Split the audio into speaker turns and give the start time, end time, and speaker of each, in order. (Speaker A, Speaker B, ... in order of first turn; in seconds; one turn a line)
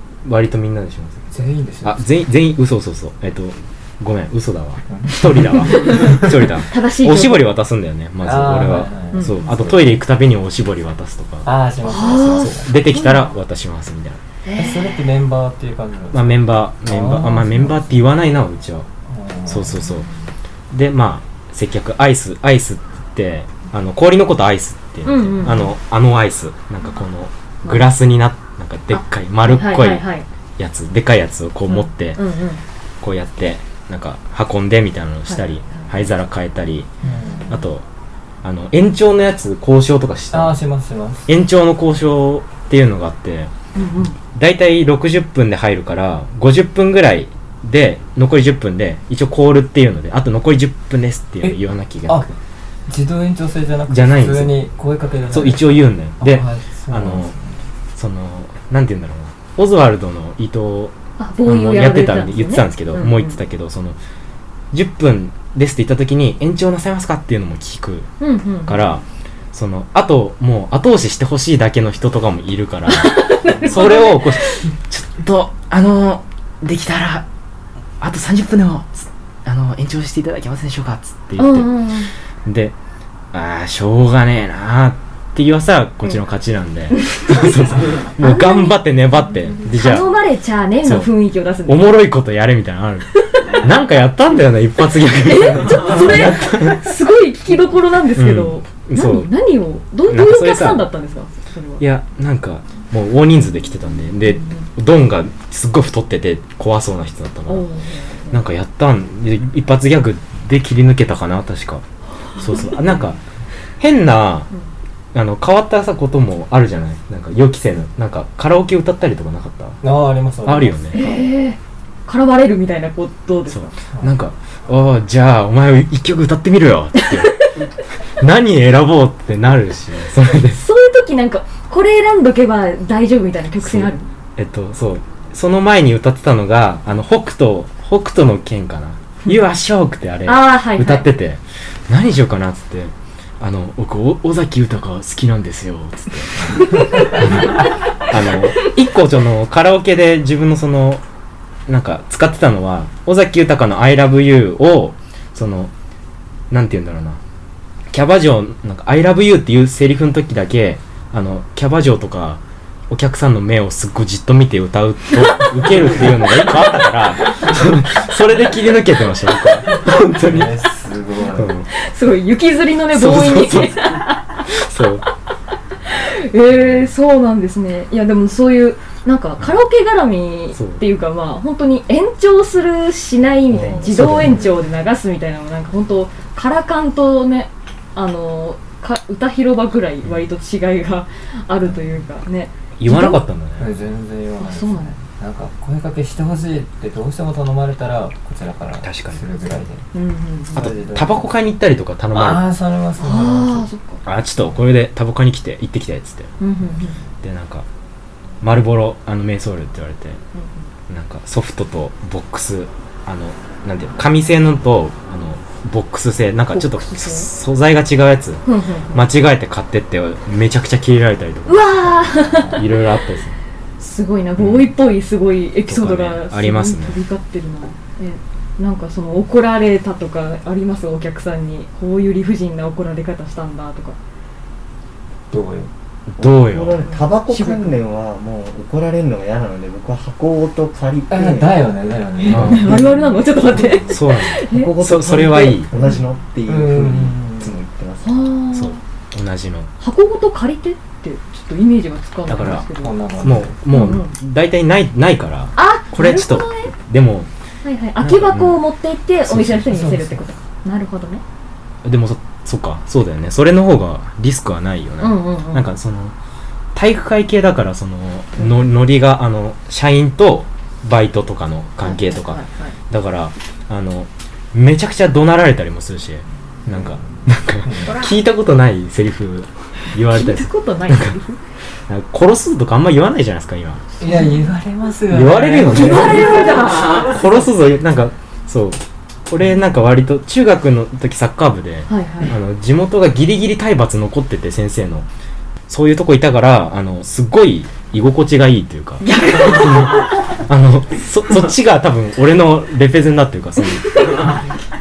Speaker A: 0.2-1.3
Speaker B: 1.3-2.0
Speaker A: 1.8-11.5
Speaker B: 4.9-6.2
Speaker C: 5.7-7.5
Speaker B: 8.2-10.0
Speaker C: 9.1-9.5
Speaker B: 11.4-12.7
Speaker C: 11.9-13.4
Speaker A: 12.4-14.2
Speaker C: 14.4-15.0
Speaker B: 14.6-17.9
Speaker A: 16.1-18.9
Speaker B: 19.1-19.8
Speaker A: 19.5-20.1
Speaker A: 20.7-32.2
Speaker C: 25.1-25.8
Speaker C: 28.9-30.3
Speaker C: 31.7-32.6
Speaker A: 33.0-36.9
Speaker C: 35.3-35.9
Speaker B: 37.0-37.6
Speaker C: 37.1-37.6
Speaker A: 37.5-37.9
Speaker A: 38.4-40.6
Speaker B: 40.3-41.3
Speaker A: 41.3-43.5
Speaker C: 43.8-44.2
Speaker A: 44.3-52.3
Speaker B: 51.4-52.3
Speaker B: 52.9-57.6
Speaker A: 53.9-54.5
Speaker A: 55.3-57.3
Speaker A: 58.0-64.0
Speaker C: 61.2-63.4
Speaker A: 64.7-68.1
Speaker C: 68.2-68.9
Speaker A: 68.7-77.3
Speaker C: 72.9-74.6
Speaker A: 78.0-81.7
Speaker C: 81.4-82.1
Speaker A: 82.5-82.8
Speaker A: 83.3-90.2
Speaker C: 86.9-87.6
Speaker C: 88.2-88.8
Speaker C: 89.6-92.0
Speaker A: 90.8-91.1
Speaker A: 91.7-96.9
Speaker C: 93.2-93.6
Speaker C: 95.1-101.8
Speaker A: 98.2-99.3
Speaker A: 100.1-100.9
Speaker A: 101.8-107.7
Speaker C: 107.5-108.4
Speaker A: 108.3-111.8
Speaker A: 112.4-113.2
Speaker C: 112.4-112.7
Speaker A: 113.8-114.5
Speaker A: 115.1-119.8
Speaker B: 119.8-121.2
Speaker A: 120.5-121.0
Speaker C: 120.9-123.7
Speaker A: 123.5-127.7
Speaker A: 128.2-130.6
Speaker C: 130.5-134.1
Speaker A: 133.6-151.0
Speaker C: 140.2-141.1
Speaker C: 146.7-147.3
Speaker A: 151.7-155.7
Speaker A: 156.5-157.2
Speaker A: 157.9-170.6
Speaker B: 170.0-171.5
Speaker A: 171.3-171.7
Speaker C: 171.7-174.6
Speaker A: 172.9-175.1
Speaker C: 175.8-193.2
Speaker A: 180.6-180.8
Speaker A: 183.5-184.5
Speaker B: 184.0-184.5
Speaker A: 192.8-193.7
Speaker B: 193.6-199.8
Speaker C: 194.4-194.9
Speaker A: 198.8-199.2
Speaker C: 199.9-200.7
Speaker B: 200.5-201.3
Speaker A: 200.6-202.4
Speaker B: 202.1-203.7
Speaker C: 203.0-204.0
Speaker A: 204.1-206.3
Speaker C: 206.4-207.0
Speaker A: 207.2-207.7
Speaker A: 208.4-210.2
Speaker A: 210.9-223.4
Speaker C: 216.5-217.3
Speaker C: 218.4-219.1
Speaker C: 221.5-222.8
Speaker C: 223.8-234.0
Speaker A: 224.4-224.7
Speaker A: 225.7-227.0
Speaker B: 235.3-235.7
Speaker A: 236.1-236.8
Speaker D: 236.2-241.6
Speaker C: 236.9-237.7
Speaker B: 241.1-243.0
Speaker C: 242.2-244.7
Speaker A: 242.3-242.8
Speaker D: 242.3-243.6
Speaker B: 243.5-243.8
Speaker A: 243.9-245.7
Speaker D: 244.5-248.2
Speaker C: 245.3-245.9
Speaker B: 246.5-247.6
Speaker C: 248.0-248.8
Speaker A: 248.5-249.7
Speaker C: 249.8-253.0
Speaker A: 252.3-252.7
Speaker B: 252.7-253.6
Speaker A: 253.2-257.3
Speaker C: 253.7-254.1
Speaker C: 255.6-256.7
Speaker C: 257.6-261.2
Speaker A: 258.0-258.6
Speaker A: 259.3-259.6
Speaker B: 259.6-260.2
Speaker A: 261.8-266.1
Speaker C: 265.0-265.7
Speaker A: 266.7-281.1
Speaker C: 271.8-272.8
Speaker B: 276.7-277.9
Speaker C: 277.9-278.1
Speaker C: 280.1-281.4
Speaker A: 281.9-283.9
Speaker B: 284.0-287.4
Speaker A: 285.1-295.1
Speaker C: 285.7-287.2
Speaker C: 291.9-292.3
Speaker A: 295.7-304.3
Speaker C: 299.0-300.1
Speaker C: 303.9-304.4